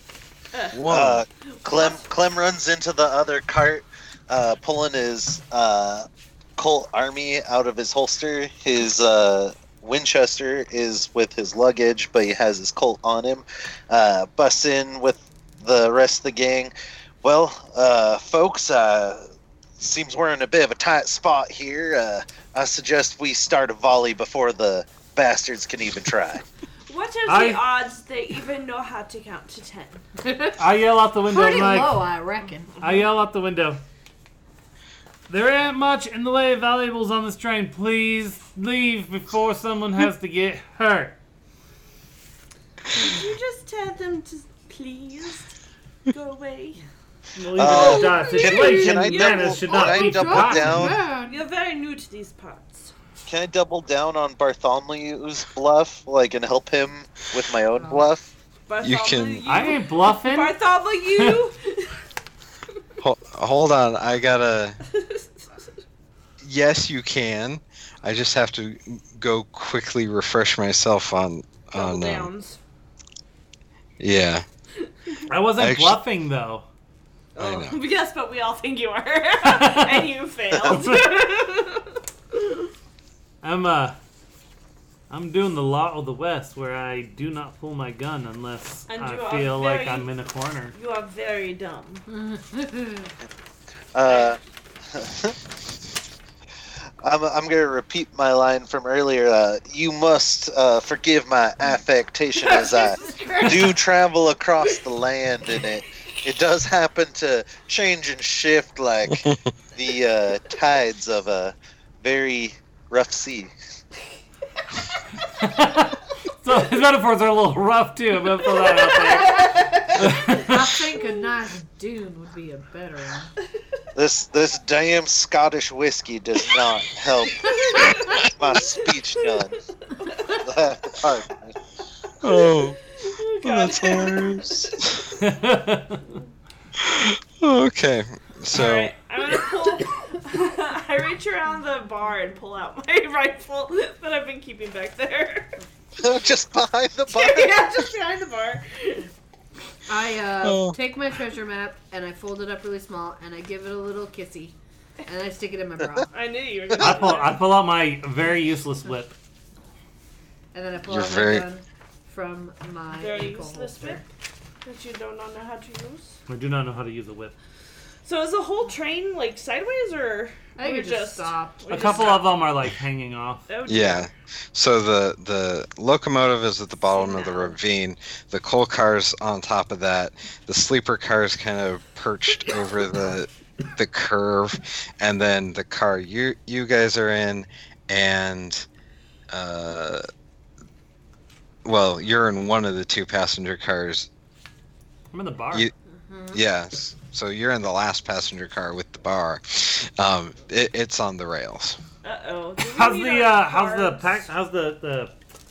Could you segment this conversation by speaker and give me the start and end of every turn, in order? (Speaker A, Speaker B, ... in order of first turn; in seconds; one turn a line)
Speaker A: 0.5-0.8
Speaker B: 0.7-1.2
Speaker C: 0.9-19.3
Speaker A: 1.7-2.0
Speaker C: 19.8-26.4
Speaker A: 26.9-30.0
Speaker D: 27.3-27.7
Speaker E: 30.2-30.6
Speaker D: 30.6-32.0
Speaker E: 31.2-32.9
Speaker D: 32.8-33.8
Speaker D: 35.3-41.2
Speaker A: 42.9-45.5
Speaker A: 46.1-46.9
Speaker D: 47.4-51.0
Speaker C: 47.5-51.0
Speaker E: 47.7-51.4
Speaker A: 47.8-49.5
Speaker A: 51.2-52.9
Speaker C: 53.3-58.3
Speaker A: 58.7-62.0
Speaker B: 58.8-59.5
Speaker D: 59.5-60.5
Speaker B: 63.0-64.8
Speaker A: 64.9-65.7
Speaker B: 66.4-72.3
Speaker A: 71.7-72.6
Speaker B: 74.0-74.5
Speaker D: 75.3-76.7
Speaker B: 75.6-76.0
Speaker A: 77.4-82.7
Speaker B: 77.4-77.8
Speaker D: 79.4-80.1
Speaker D: 80.7-81.3
Speaker D: 83.4-84.0
Speaker D: 85.1-90.8
Speaker A: 88.9-90.1
Speaker A: 90.7-92.1
Speaker E: 92.1-93.1
Speaker C: 93.9-95.4
Speaker A: 94.1-94.4
Speaker C: 97.0-113.5
Speaker A: 102.4-103.8
Speaker A: 105.5-106.2
Speaker D: 115.3-119.4
Speaker A: 118.9-119.8
Speaker E: 119.4-123.3
Speaker D: 120.0-120.7
Speaker C: 124.0-129.6
Speaker A: 127.4-128.2
Speaker A: 129.2-129.5
Speaker A: 130.0-130.3
Speaker C: 130.4-131.5
Speaker B: 132.2-132.8
Speaker A: 132.3-135.0
Speaker B: 133.4-135.1
Speaker D: 135.2-136.1
Speaker B: 136.8-138.9
Speaker A: 138.5-145.6
Speaker C: 146.0-147.7
Speaker A: 147.1-149.1
Speaker E: 149.9-154.6
Speaker B: 150.4-150.8
Speaker E: 155.1-156.1
Speaker A: 156.1-157.4
Speaker D: 156.8-159.2
Speaker E: 160.5-164.0
Speaker B: 160.9-161.4
Speaker A: 162.9-164.0
Speaker A: 164.6-166.2
Speaker D: 166.3-167.3
Speaker A: 168.1-172.4
Speaker E: 170.6-172.1
Speaker D: 171.7-173.5
Speaker A: 173.5-174.1
Speaker B: 173.7-188.7
Speaker A: 176.9-177.6
Speaker B: 189.3-190.0
Speaker B: 191.7-194.1
Speaker D: 195.1-195.7
Speaker E: 195.9-196.5
Speaker B: 196.3-201.8
Speaker A: 202.0-204.2
Speaker D: 202.7-205.2